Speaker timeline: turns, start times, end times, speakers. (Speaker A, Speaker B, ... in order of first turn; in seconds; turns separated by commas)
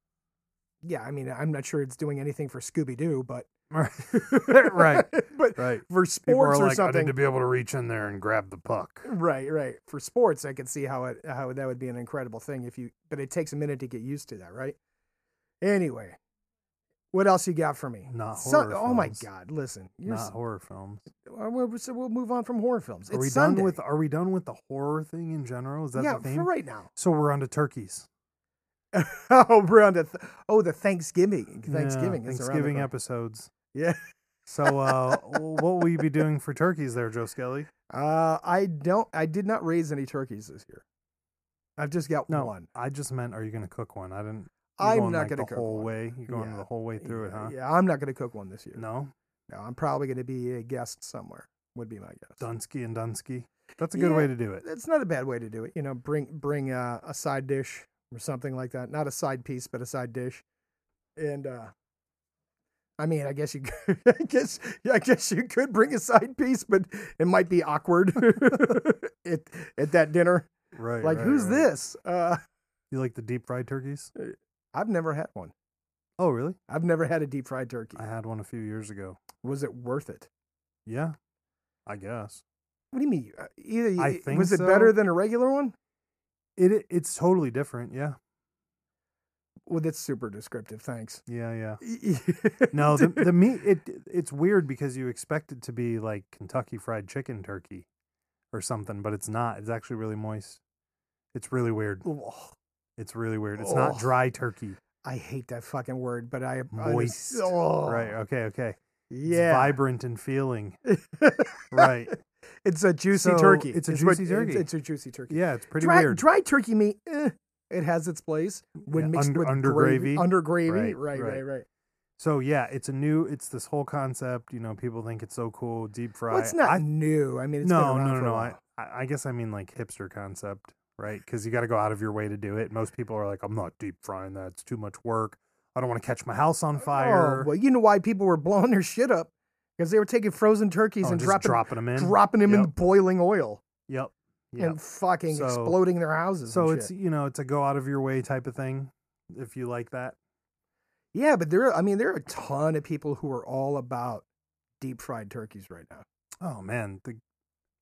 Speaker A: 0.8-3.5, Speaker B: 3.7-9.1, Speaker A: 4.1-7.2, Speaker A: 9.1-14.8, Speaker A: 15.6-16.2, Speaker A: 17.1-20.3, Speaker B: 18.1-19.3, Speaker B: 20.1-21.0, Speaker A: 21.2-23.8, Speaker B: 23.1-28.1, Speaker A: 25.9-26.9, Speaker A: 28.9-32.9, Speaker B: 31.7-33.5, Speaker A: 33.7-34.0, Speaker B: 34.5-37.7, Speaker A: 34.6-35.8, Speaker A: 37.9-40.8, Speaker A: 41.8-42.7, Speaker B: 42.3-47.5, Speaker A: 44.8-48.8, Speaker B: 48.8-49.1, Speaker A: 49.5-52.5, Speaker B: 52.4-54.6, Speaker A: 54.0-60.4, Speaker A: 61.2-61.7, Speaker A: 63.0-70.5, Speaker B: 68.5-68.8, Speaker B: 70.7-71.7, Speaker A: 71.0-72.4, Speaker B: 72.9-74.1, Speaker A: 74.2-75.5, Speaker B: 76.2-76.6, Speaker A: 76.7-78.0, Speaker B: 78.0-79.2, Speaker A: 79.4-80.3, Speaker B: 80.9-81.2, Speaker B: 81.9-82.4, Speaker A: 82.9-85.7, Speaker B: 84.0-85.0, Speaker B: 86.6-88.2, Speaker A: 89.7-91.2, Speaker B: 91.3-91.8, Speaker A: 91.8-93.3, Speaker B: 92.7-97.9, Speaker B: 98.5-100.6, Speaker B: 101.3-102.0, Speaker A: 102.0-102.5, Speaker B: 103.0-104.8, Speaker A: 103.6-104.1, Speaker A: 105.0-108.2, Speaker B: 106.7-110.8, Speaker A: 109.1-109.8, Speaker A: 110.9-112.1, Speaker B: 111.7-112.1, Speaker A: 112.7-121.7, Speaker B: 113.1-114.7, Speaker B: 115.3-116.2, Speaker B: 118.9-121.4, Speaker B: 122.2-126.8, Speaker A: 126.3-128.6, Speaker B: 127.6-137.5, Speaker A: 136.8-143.6, Speaker B: 141.0-142.7, Speaker B: 143.9-145.8, Speaker A: 144.6-146.9, Speaker B: 146.5-150.2, Speaker A: 151.1-154.2, Speaker A: 154.8-156.1, Speaker B: 156.4-157.2